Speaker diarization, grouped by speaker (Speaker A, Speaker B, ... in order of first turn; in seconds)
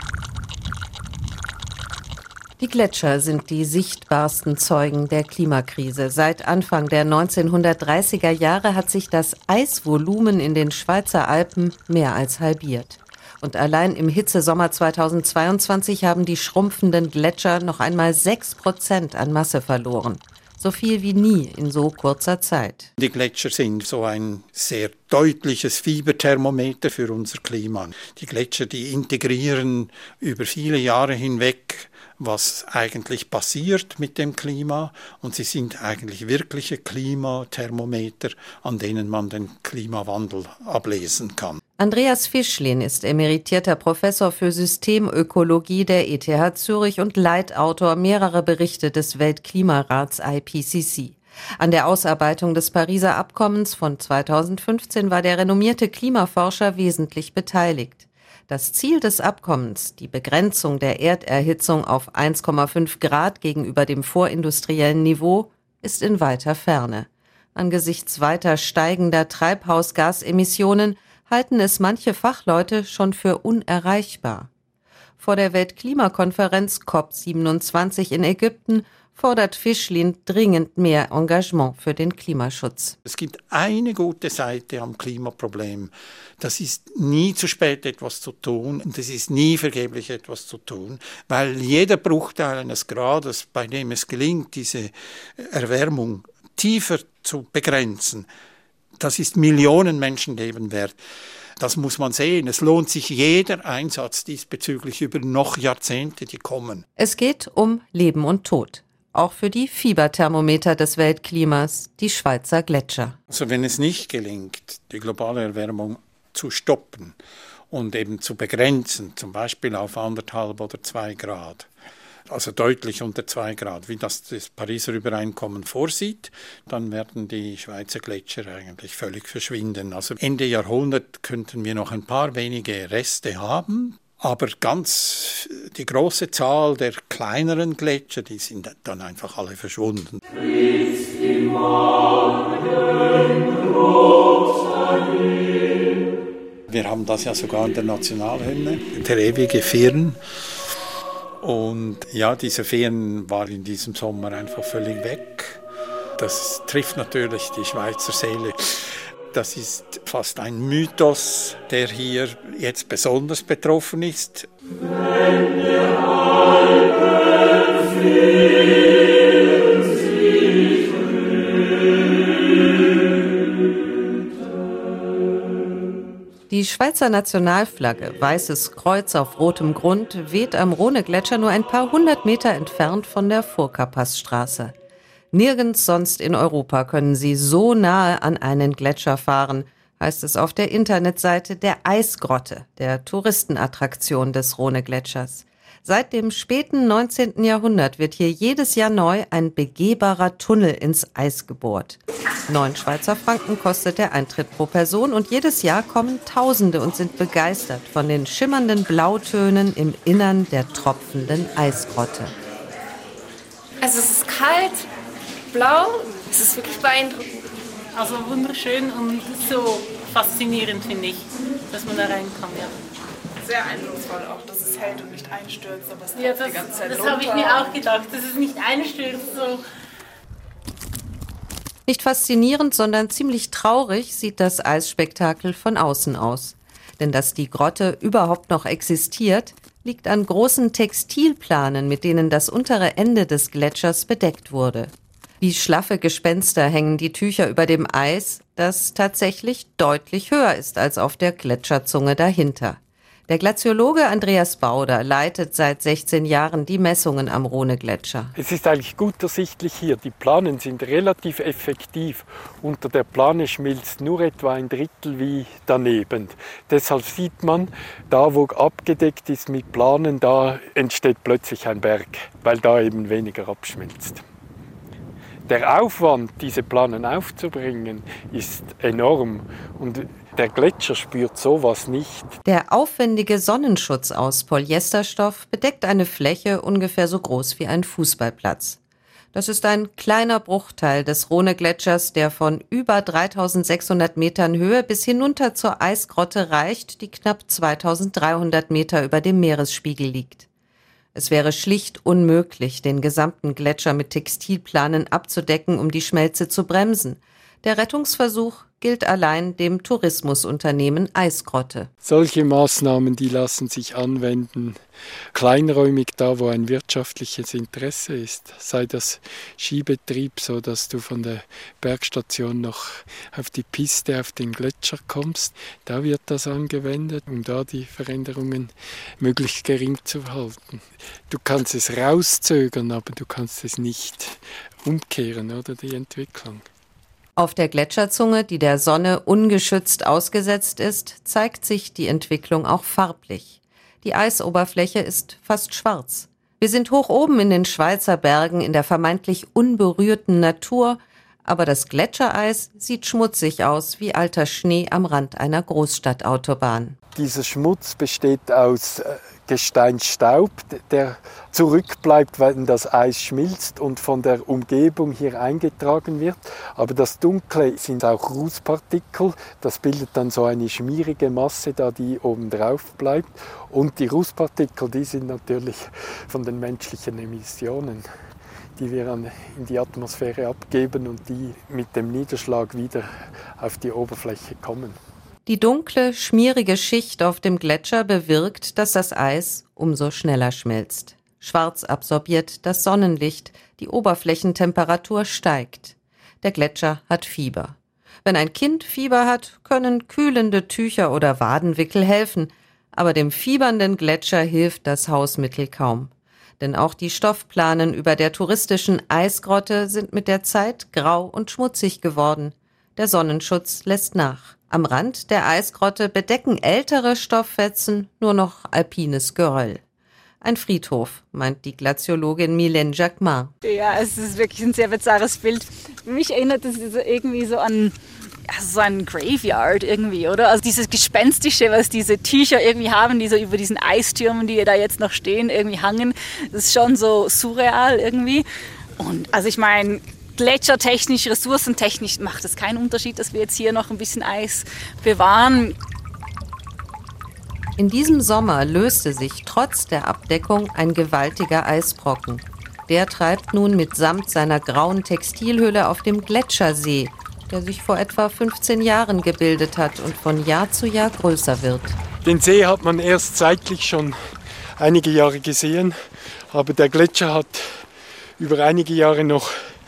Speaker A: 2.6-22.9, 41.8-74.5, 75.2-83.0, 107.0-113.2, 176.5-184.7, 185.3-212.3, 231.9-258.3, 282.4-288.8, 289.3-300.5, 301.1-311.9, 337.4-357.0, 385.4-419.8, 420.4-423.5, 447.8-462.0
Speaker B: 23.0-41.6, 83.0-98.3, 99.0-101.0, 101.6-106.8, 113.3-117.2, 117.7-121.7, 122.3-140.2, 146.7-150.2, 151.4-155.6, 156.2-164.5
Speaker C: 213.8-214.8, 215.5-217.2
Speaker D: 217.9-222.7, 226.1-229.6
Speaker E: 223.4-227.8
Speaker F: 258.3-274.2, 275.5-282.4, 312.0-314.8, 315.3-336.6, 357.1-378.1, 378.8-385.0, 462.2-464.1, 464.8-466.0, 466.5-467.9, 468.4-469.5
Speaker G: 423.6-438.4, 439.0-445.8